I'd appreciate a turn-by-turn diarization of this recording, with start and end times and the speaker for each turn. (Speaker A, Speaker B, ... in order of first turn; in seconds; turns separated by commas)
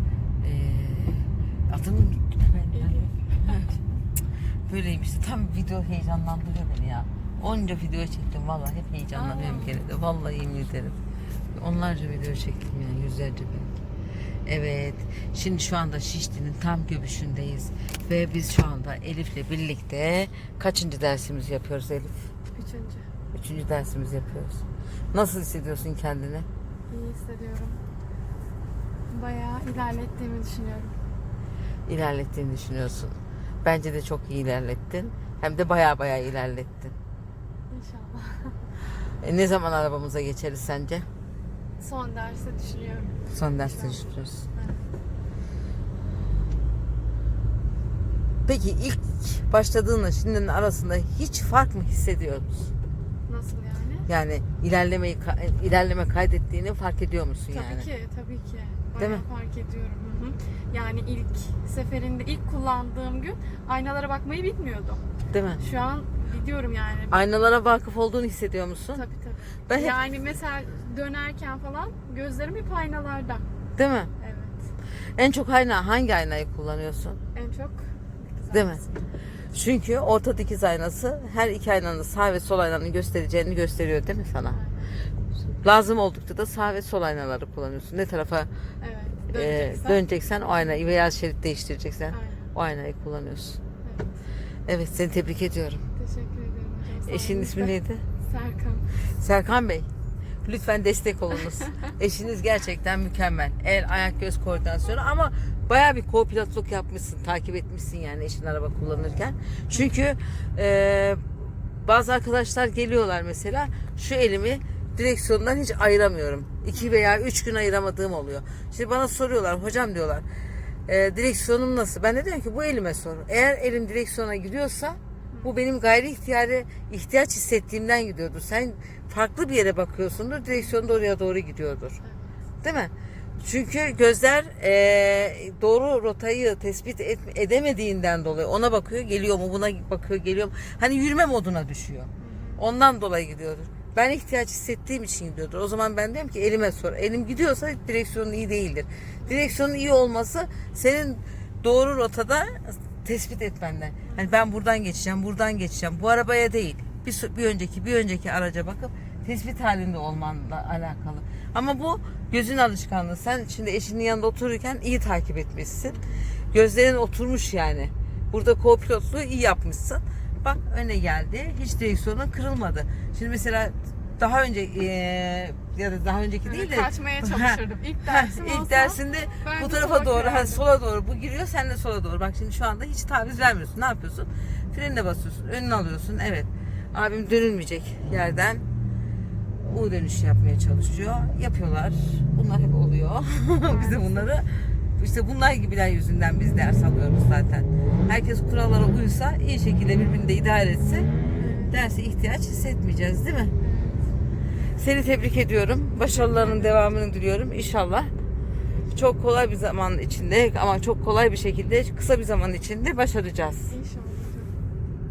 Speaker A: 0.4-3.8, Speaker B: 2.7-3.7, Speaker A: 4.7-11.0, Speaker B: 9.1-9.8, Speaker A: 11.5-13.8, Speaker A: 14.4-22.3, Speaker B: 22.5-23.1, Speaker A: 23.3-26.5, Speaker B: 26.9-27.8, Speaker B: 29.1-30.9, Speaker A: 31.9-36.9, Speaker B: 37.7-38.6, Speaker A: 39.2-41.0, Speaker B: 41.8-44.9, Speaker A: 43.3-44.5, Speaker A: 48.5-52.7, Speaker B: 53.3-54.1, Speaker A: 54.1-57.9, Speaker B: 57.5-65.0, Speaker A: 65.3-65.7, Speaker B: 65.6-67.2, Speaker A: 67.1-69.0, Speaker B: 68.9-73.4, Speaker A: 69.7-70.0, Speaker A: 73.8-74.1, Speaker B: 74.2-74.6, Speaker A: 75.2-77.2, Speaker B: 77.3-79.1, Speaker A: 78.5-78.8, Speaker A: 79.5-84.6, Speaker B: 84.5-84.9, Speaker A: 85.6-88.5, Speaker B: 88.8-90.6, Speaker A: 89.3-93.6, Speaker B: 92.1-92.4, Speaker B: 93.8-94.1, Speaker A: 94.7-95.8, Speaker B: 96.0-98.9, Speaker A: 97.0-98.0, Speaker A: 99.1-99.9, Speaker A: 100.4-111.2, Speaker A: 111.8-120.2, Speaker A: 120.9-132.0, Speaker B: 132.0-132.3, Speaker A: 132.6-132.9, Speaker A: 133.4-188.6, Speaker B: 142.2-142.6, Speaker B: 149.2-149.6, Speaker B: 154.1-154.3, Speaker B: 165.9-166.2, Speaker B: 176.4-180.6, Speaker A: 189.7-201.1, Speaker B: 193.7-194.3, Speaker B: 201.3-201.8, Speaker A: 201.7-203.5, Speaker B: 203.6-204.1, Speaker A: 204.8-208.1, Speaker B: 206.1-206.9, Speaker A: 208.9-213.7, Speaker B: 213.7-214.5